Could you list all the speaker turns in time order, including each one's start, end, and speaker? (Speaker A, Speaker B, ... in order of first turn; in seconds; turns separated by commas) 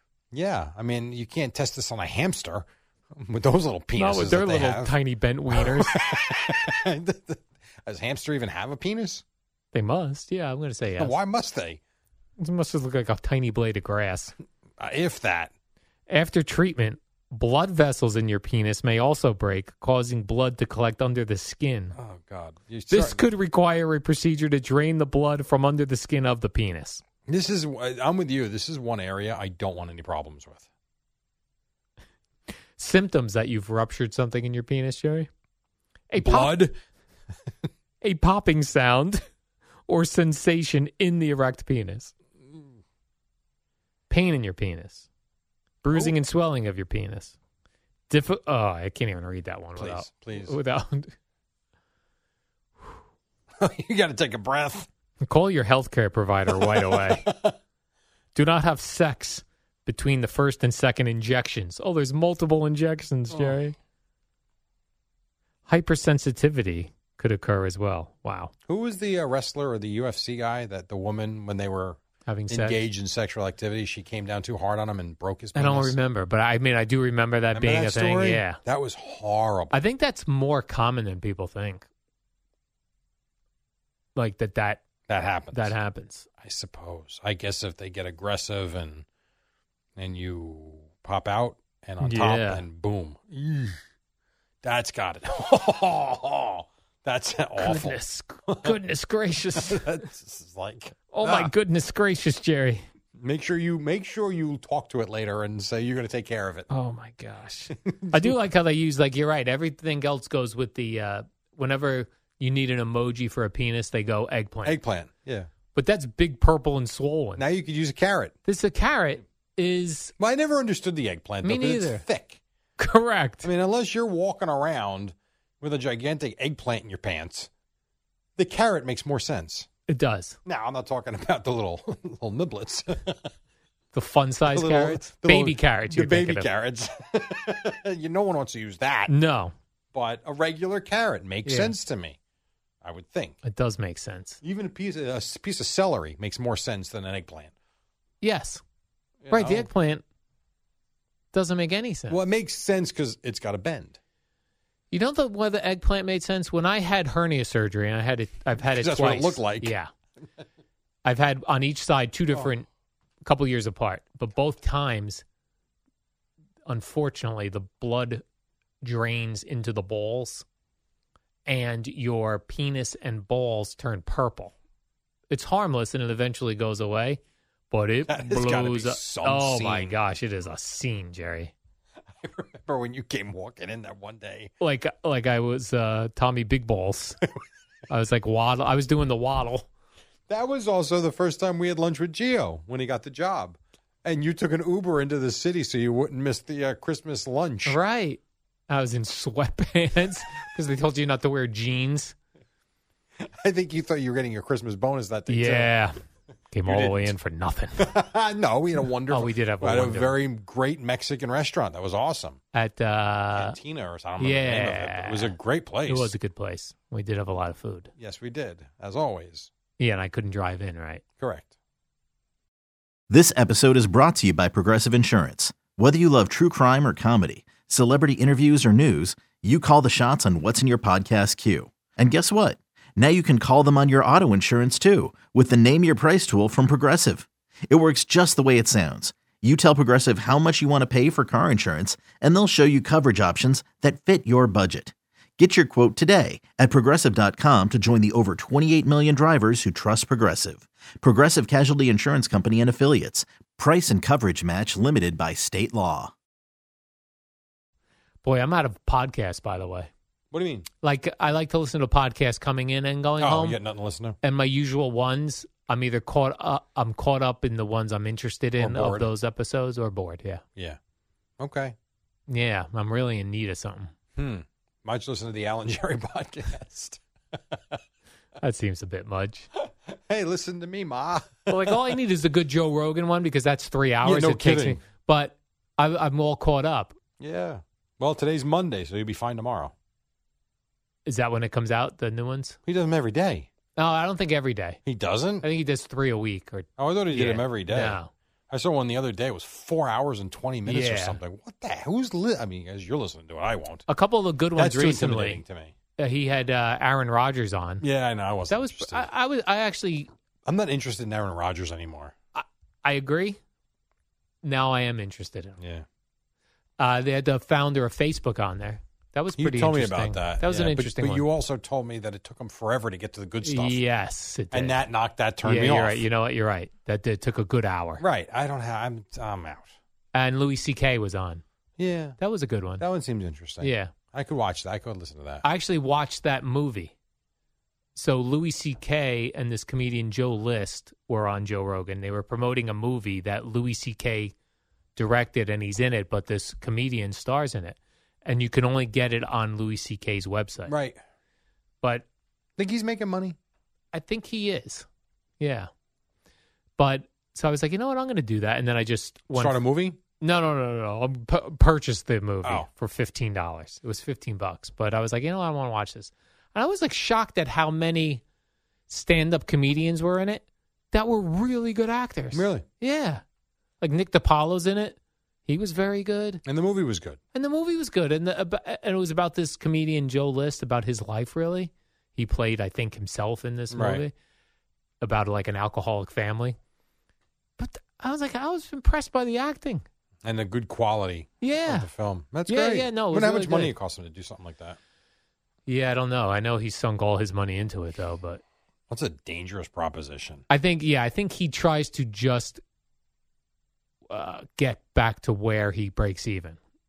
Speaker A: 0.3-4.9, Speaker B: 4.0-6.0, Speaker A: 5.5-9.2, Speaker B: 9.7-11.2, Speaker A: 11.0-11.8, Speaker B: 12.4-14.3, Speaker A: 14.8-15.5, Speaker B: 16.1-22.0, Speaker A: 21.9-23.2, Speaker B: 22.9-27.0, Speaker A: 27.3-30.6, Speaker B: 32.8-35.3, Speaker B: 36.1-36.5, Speaker A: 36.1-36.7, Speaker B: 38.0-39.2, Speaker B: 39.9-42.1, Speaker B: 44.1-45.1, Speaker B: 45.8-47.3, Speaker B: 48.1-51.1, Speaker A: 49.8-50.6, Speaker A: 53.6-54.9, Speaker B: 55.2-57.3, Speaker A: 56.5-57.5, Speaker B: 58.3-63.7, Speaker A: 63.3-63.6, Speaker B: 65.7-68.5, Speaker A: 68.7-72.0, Speaker B: 72.2-72.8, Speaker A: 72.5-76.0, Speaker B: 75.5-78.6, Speaker A: 77.5-79.7, Speaker B: 79.7-81.8, Speaker B: 84.1-84.8, Speaker A: 85.1-85.7, Speaker B: 85.5-86.2, Speaker A: 86.4-89.0, Speaker A: 90.0-93.8, Speaker B: 92.0-92.6, Speaker A: 94.6-98.8, Speaker B: 97.6-100.0, Speaker A: 99.5-101.5, Speaker B: 101.1-102.8, Speaker A: 103.2-106.7, Speaker B: 106.7-114.8, Speaker A: 107.8-108.3, Speaker A: 114.6-115.5, Speaker B: 115.7-117.4, Speaker A: 117.4-118.3, Speaker B: 118.5-120.1, Speaker A: 120.2-122.4, Speaker B: 121.4-122.0, Speaker B: 122.8-123.5, Speaker A: 123.4-127.5, Speaker A: 128.4-129.7, Speaker B: 129.9-130.4, Speaker A: 130.4-133.3, Speaker B: 133.9-136.5, Speaker A: 134.5-139.1, Speaker B: 139.1-139.5, Speaker A: 139.9-142.2, Speaker B: 141.4-141.7, Speaker A: 142.8-143.4, Speaker B: 143.4-144.4, Speaker A: 144.4-147.5, Speaker B: 148.2-148.6, Speaker A: 149.2-149.7, Speaker B: 149.3-150.0, Speaker B: 151.3-152.2, Speaker A: 152.1-154.0, Speaker B: 154.9-159.9, Speaker A: 158.6-159.7, Speaker B: 161.0-162.7, Speaker B: 163.2-165.2, Speaker B: 166.7-168.2, Speaker B: 168.8-170.4, Speaker B: 171.4-174.5, Speaker B: 175.3-177.2, Speaker B: 177.7-181.5, Speaker A: 178.1-179.9, Speaker A: 182.2-184.5, Speaker B: 184.6-187.2, Speaker B: 187.9-189.7, Speaker A: 190.3-197.8, Speaker B: 197.7-202.1, Speaker A: 203.2-205.7, Speaker B: 205.3-206.0, Speaker B: 206.5-207.9, Speaker A: 206.7-207.1, Speaker A: 207.8-212.4, Speaker B: 209.1-210.2, Speaker B: 212.5-213.6, Speaker A: 213.3-216.1, Speaker B: 214.2-215.3, Speaker B: 215.9-217.9, Speaker A: 218.0-219.5, Speaker B: 219.8-221.0, Speaker A: 221.2-221.5, Speaker C: 223.1-256.1, Speaker B: 258.2-259.9, Speaker A: 260.3-260.6, Speaker B: 260.8-263.6, Speaker A: 263.2-264.2, Speaker B: 264.2-270.4, Speaker A: 268.6-269.1, Speaker A: 271.4-271.7, Speaker B: 272.3-273.9, Speaker A: 274.1-277.8, Speaker B: 278.4-279.5, Speaker A: 279.9-281.9, Speaker B: 281.5-287.0, Speaker A: 284.0-284.8, Speaker A: 287.2-289.7, Speaker B: 291.1-292.6, Speaker A: 292.6-293.5, Speaker B: 293.8-294.8, Speaker A: 294.9-295.4, Speaker B: 295.4-298.1, Speaker A: 296.8-298.0, Speaker A: 298.5-303.9, Speaker B: 300.6-301.2, Speaker B: 303.9-305.4, Speaker A: 304.6-305.7, Speaker B: 306.0-307.8, Speaker A: 307.8-309.1, Speaker B: 308.5-310.1, Speaker A: 310.4-312.1, Speaker B: 312.3-313.4, Speaker B: 314.4-315.6, Speaker A: 315.6-315.8, Speaker B: 316.8-321.2, Speaker A: 319.4-323.8, Speaker B: 323.4-324.8, Speaker A: 324.5-326.1, Speaker B: 325.4-328.0, Speaker A: 328.0-329.7, Speaker B: 330.1-331.4, Speaker A: 331.8-332.2, Speaker B: 332.2-332.8, Speaker A: 332.8-335.4, Speaker B: 333.6-333.9, Speaker B: 335.4-336.9, Speaker B: 337.9-344.3, Speaker B: 344.9-350.7, Speaker A: 350.7-351.0, Speaker A: 352.6-353.4, Speaker B: 353.9-354.9, Speaker B: 355.4-355.7, Speaker B: 356.8-359.6, Speaker A: 359.3-360.0, Speaker B: 360.2-368.2, Speaker B: 368.9-373.2, Speaker A: 372.3-372.6, Speaker B: 373.8-376.4, Speaker A: 376.4-377.2, Speaker B: 377.3-384.1, Speaker A: 383.7-384.0, Speaker B: 385.0-386.6, Speaker B: 387.6-389.8, Speaker A: 390.2-394.8, Speaker B: 391.4-391.9, Speaker B: 392.5-393.7, Speaker B: 395.6-398.4, Speaker A: 398.9-400.4, Speaker B: 400.5-402.6, Speaker B: 404.1-406.6